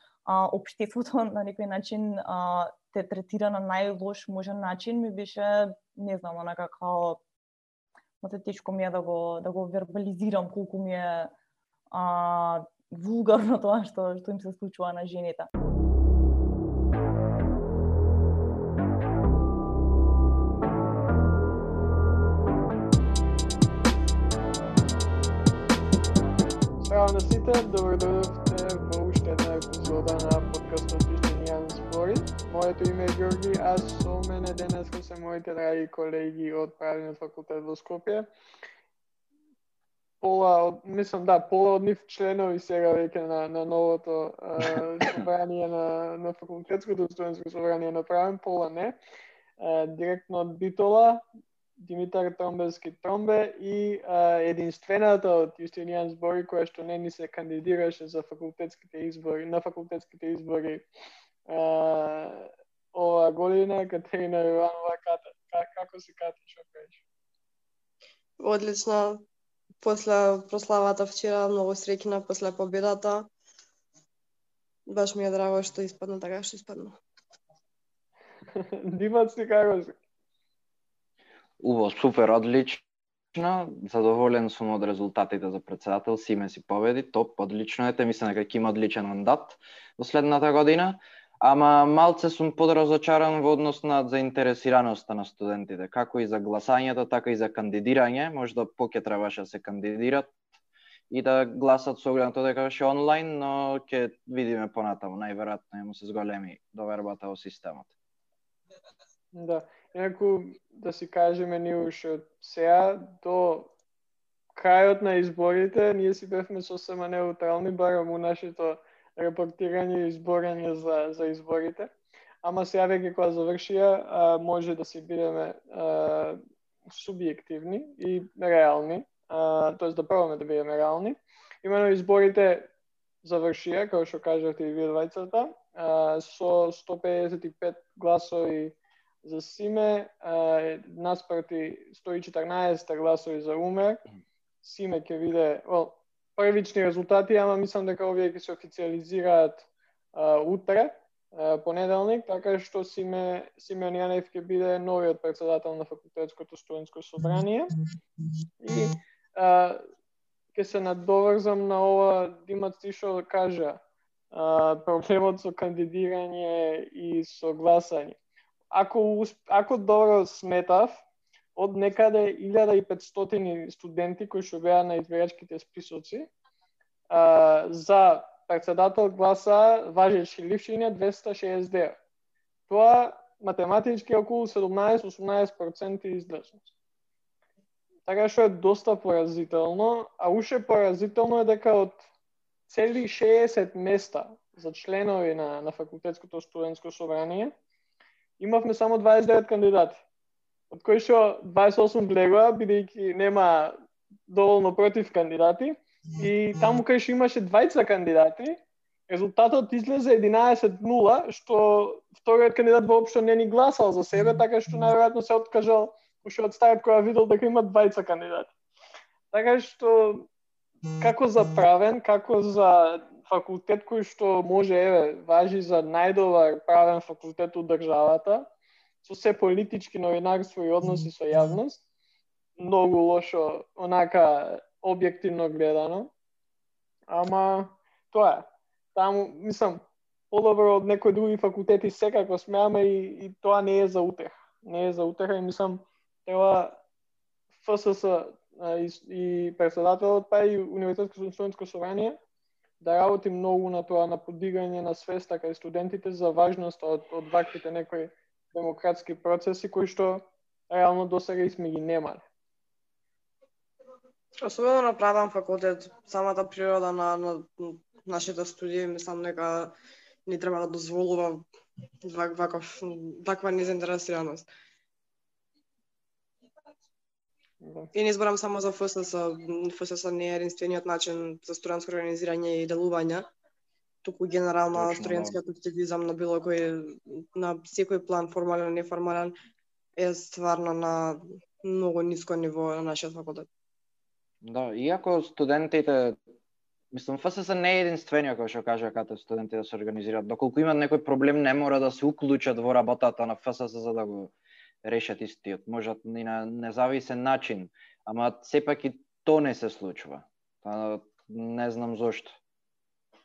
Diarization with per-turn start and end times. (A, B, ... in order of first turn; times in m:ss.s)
0:00.3-0:07.2 A
0:08.2-0:11.3 A
0:11.9-0:15.5 A
0:26.8-0:38.3 B
0:40.2-0:49.0 B
0:49.6-0:51.2 B
0:51.8-1:00.9 B
1:01.5-1:07.0 B
1:08.4-1:09.2 C
1:09.8-1:13.3 C
1:14.9-1:17.0 C
1:18.5-1:20.0 B
1:21.6-1:40.3 D
1:41.1-1:47.9 D
1:49.3-1:53.7 B
1:54.6-2:12.7 B
2:13.2-2:24.0 B
2:24.6-2:37.8 B
2:38.6-2:39.8 B
2:40.5-2:43.8 B
2:44.3-2:48.2 B
2:48.7-2:51.0 B
2:51.6-2:56.3 B
2:57.1-3:02.0 B
3:02.7-3:06.7 B
3:08.1-3:12.1 B
3:12.7-3:17.5 B
3:18.4-3:20.0 B
3:20.7-3:23.8 B
3:24.3-3:38.5 B
3:39.3-3:40.3 B
3:41.0-3:48.5 B
3:49.0-3:51.8 B
3:52.6-3:56.1 B
3:57.1-4:06.8 B
4:07.6-4:12.2 B
4:12.8-4:22.2 B
4:24.4-4:29.7 C
4:30.3-4:31.4 C
4:32.0-4:34.5 C
4:37.6-4:37.9 B
4:37.9-4:43.3 C
4:44.0-4:49.4 C
4:44.7-4:45.4 D
4:50.0-4:53.5 C
4:54.4-4:56.2 D
4:56.9-5:04.3 D
5:04.8-5:12.4 D